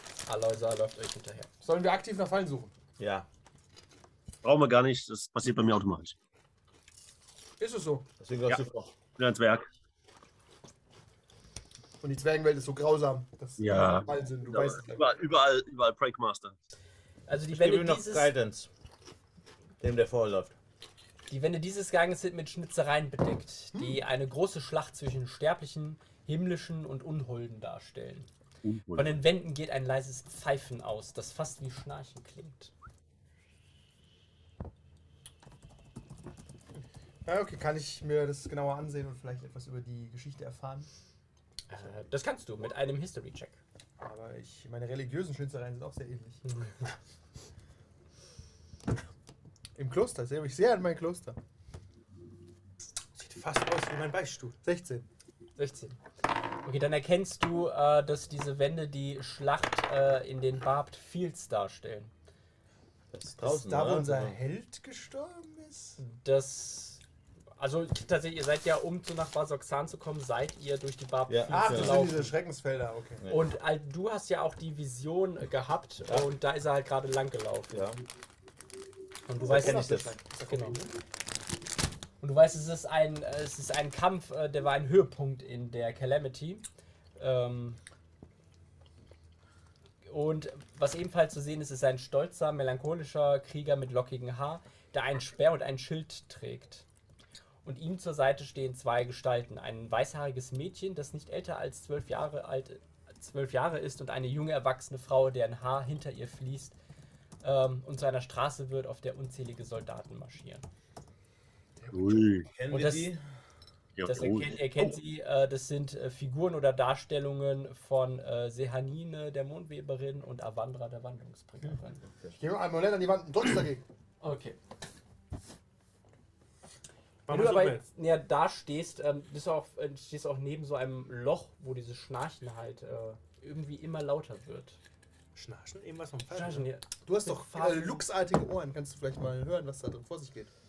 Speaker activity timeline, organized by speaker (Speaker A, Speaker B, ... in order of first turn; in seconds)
Speaker A: 0.2-1.5, 17.3-18.3, 21.3-28.3, 28.9-32.7, 41.7-43.6, 55.5-56.0, 56.6-62.1, 66.0-67.0, 67.6-72.3, 73.3-77.8, 79.3-80.8, 82.2-86.6, 87.2-87.8, 90.0-96.8, 97.6-106.8, 107.4-110.7, 112.7-113.1, 114.0-122.0, 124.2-124.6, 127.3-134.8, 136.3-138.0
Speaker B: 1.6-2.7, 7.6-8.1, 12.0-15.2, 37.2-40.9, 44.0-46.4, 49.8-51.4, 54.6-55.1, 63.4-66.0, 71.5-73.2, 79.3-80.9, 111.8-112.3, 122.3-123.8, 137.0-140.5
Speaker C: 3.0-3.3, 8.2-8.9, 17.5-18.7, 19.8-20.5, 63.1-64.4, 71.3-72.1, 73.2-73.5, 77.7-78.0, 79.4-80.1, 112.5-113.2
Speaker D: 4.4-6.1, 9.2-9.7, 13.6-16.5, 28.6-29.2, 111.9-112.5, 114.0-114.9
Speaker E: 53.2-54.6, 127.3-127.8, 135.3-136.7